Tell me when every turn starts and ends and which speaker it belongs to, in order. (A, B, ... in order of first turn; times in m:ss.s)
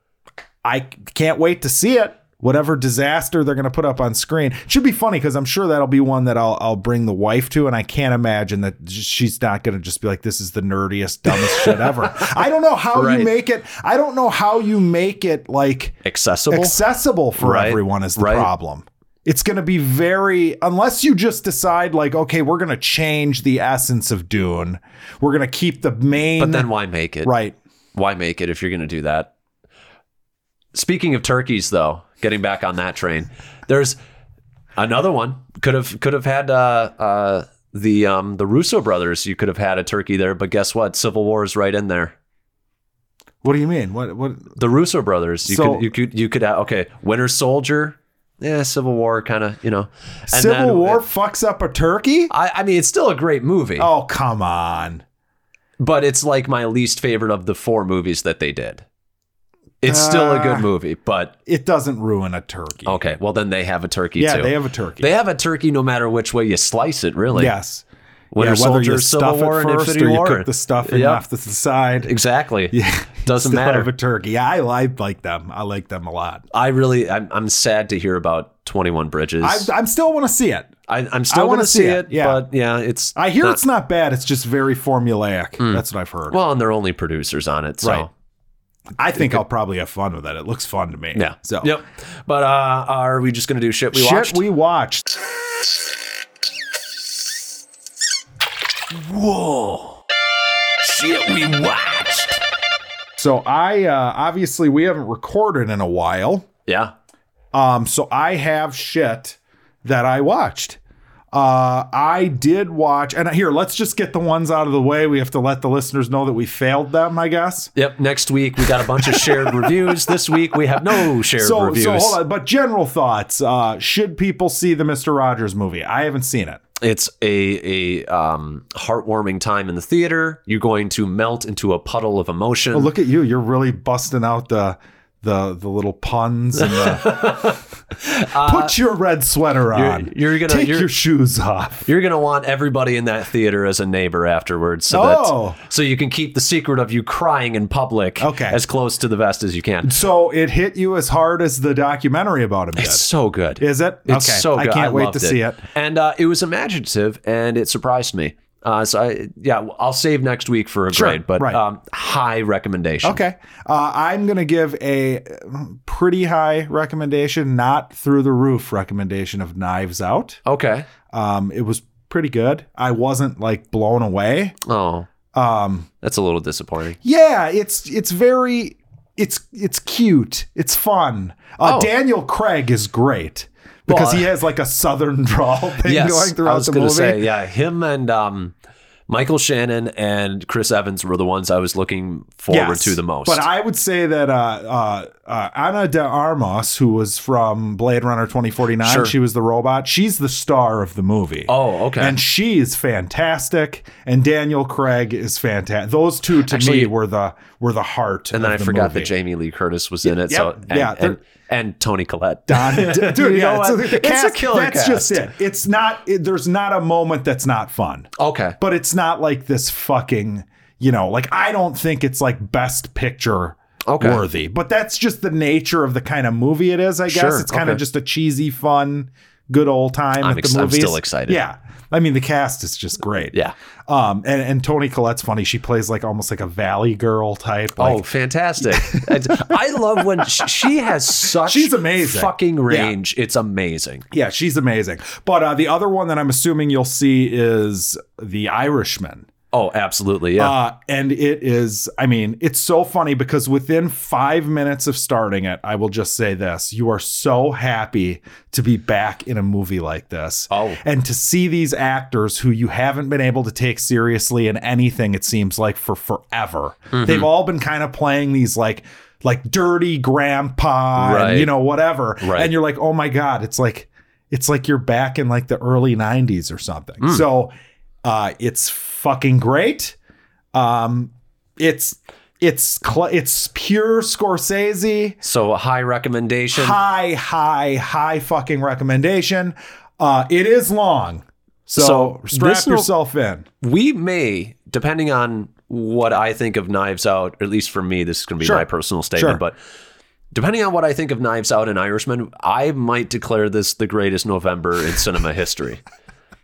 0:00.6-0:16.0 A
0:11.3-0:12.3 B
0:12.9-0:13.3 B
0:16.0-0:16.8 B
0:16.5-0:26.7 A
0:17.4-0:18.5 B
0:26.4-0:27.3 B
0:27.2-0:27.6 A
0:28.0-0:29.3 B
0:30.7-0:34.0 B
0:34.8-0:42.2 B
0:43.4-0:44.5 A
0:44.6-0:51.0 B
0:45.5-0:45.8 A
0:50.3-0:52.3 A
0:52.3-0:53.9 B
0:53.8-0:55.0 A
0:55.8-0:58.8 B
0:59.8-1:01.3 B
0:59.8-1:00.7 A
1:01.5-1:03.0 A
1:02.9-1:07.5 B
1:04.2-1:05.1 A
1:07.3-1:12.1 A
1:08.3-1:11.2 B
1:12.0-1:13.9 B
1:12.7-1:16.4 A
1:16.5-1:19.7 B
1:19.4-1:20.7 A
1:20.9-1:23.6 B
1:21.3-1:22.4 A
1:23.2-1:26.4 A
1:25.6-1:28.1 B
1:29.0-1:31.8 A
1:31.2-1:34.4 B
1:33.9-1:35.1 A
1:38.9-1:40.0 B
1:40.8-1:42.4 B
1:43.2-1:46.5 A
1:46.7-1:46.9 B
1:47.5-1:50.8 A
1:51.3-1:57.7 A
1:57.8-2:02.2 B
1:59.0-2:00.1 A
2:00.9-2:06.6 A
2:06.8-2:12.9 B
2:12.7-2:17.5 A
2:16.6-2:18.8 B
2:18.4-2:21.9 A
2:19.7-2:20.9 B
2:21.9-2:30.0 B
2:24.9-2:25.6 A
2:28.2-2:28.6 A
2:29.8-2:33.0 A
2:32.8-2:43.2 B
2:33.6-2:35.6 A
2:40.9-2:41.6 A
2:43.0-2:50.4 A
2:50.4-2:50.9 B
2:51.1-2:54.6 A
2:54.6-2:55.1 B
2:55.3-2:55.9 A
2:56.0-2:57.0 B
2:57.0-3:07.2 A
3:01.6-3:01.9 B
3:03.9-3:04.3 B
3:05.8-3:08.6 B
3:09.1-3:13.5 B
3:12.5-3:29.1 A
3:18.8-3:19.1 B
3:21.5-3:22.2 B
3:26.5-3:26.9 B
3:28.3-3:35.3 B
3:30.0-3:31.2 A
3:32.5-3:53.4 A
3:38.2-3:38.6 B
3:43.9-3:44.2 B
3:47.1-3:47.8 B
3:50.2-3:51.4 B
3:53.9-3:58.0 A
3:57.8-4:04.0 B
3:58.6-4:00.5 A
4:01.3-4:03.0 A
4:04.1-4:09.3 A
4:09.5-4:10.6 B
4:10.4-4:37.5 A
4:20.5-4:20.8 B
4:26.9-4:27.3 B
4:31.0-4:31.5 B
4:32.2-4:32.5 B
4:38.0-4:40.0 A
4:40.5-4:45.2 A
4:45.2-4:46.8 B
4:46.5-4:53.5 A
4:51.8-4:52.9 B
4:53.6-4:59.6 B
4:58.4-4:59.4 A
5:00.3-5:05.8 B